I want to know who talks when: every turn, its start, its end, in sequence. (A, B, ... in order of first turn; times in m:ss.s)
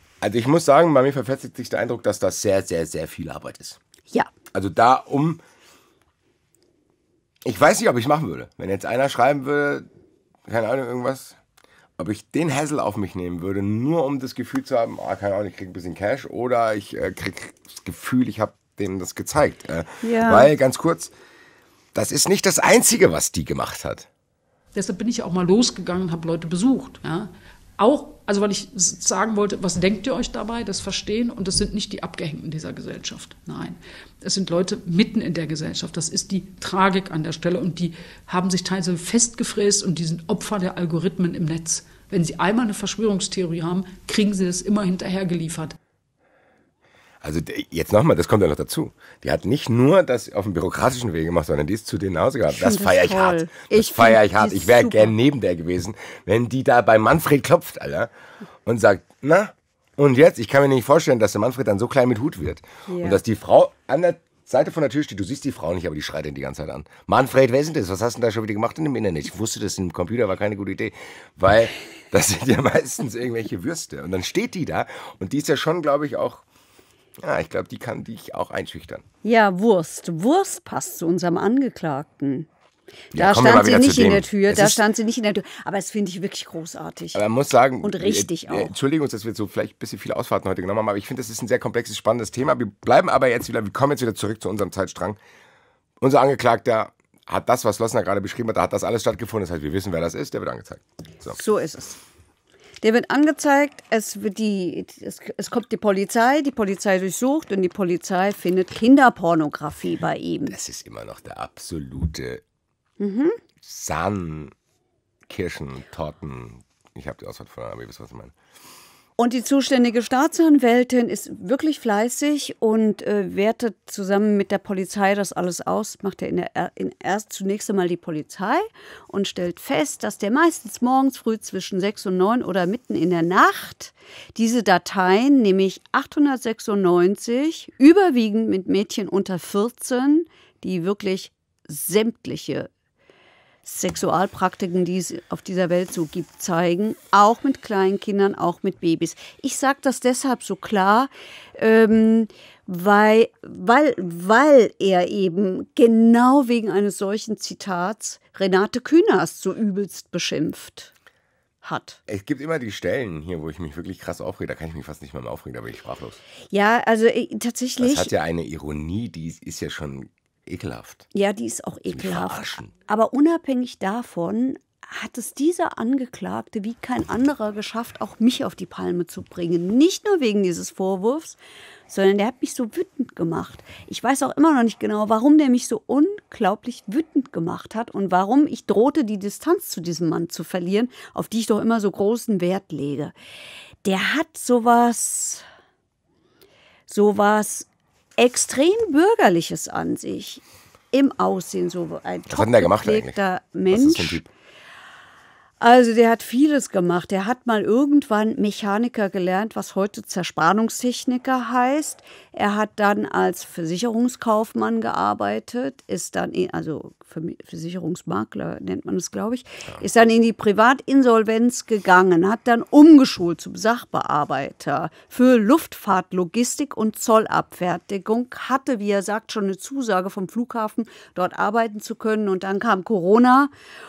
0:00.2-0:03.8 A
0:04.5-0:05.4 A
0:07.4-0:09.9 A
0:10.5-0:11.4 A
0:12.0-0:21.1 A
0:20.0-0:20.5 B
0:21.9-0:24.1 A
0:24.7-0:45.8 C
0:47.2-0:58.1 A
0:52.5-0:55.1 B
0:58.6-1:16.4 A
1:02.9-1:03.2 B
1:17.2-1:19.0 A
1:19.2-1:22.5 B
1:23.1-1:27.2 B
1:23.1-1:24.8 A
1:27.1-1:35.2 A
1:27.8-1:28.8 B
1:36.0-1:41.4 A
1:41.3-1:42.0 B
1:42.8-1:50.6 B
1:50.5-1:52.4 A
1:53.0-1:53.4 B
1:53.6-1:54.5 A
1:55.3-1:58.3 A
1:59.2-2:22.7 B
2:23.6-2:40.9 B
2:41.6-2:42.0 B
2:42.1-2:46.2 A
2:46.5-2:48.1 B
2:47.8-2:51.1 A
2:51.1-3:13.1 B
2:51.9-2:52.7 A
3:13.8-3:15.4 B
3:16.9-3:24.2 B
3:22.3-3:23.2 A
3:23.7-3:24.3 A
3:25.6-3:53.5 B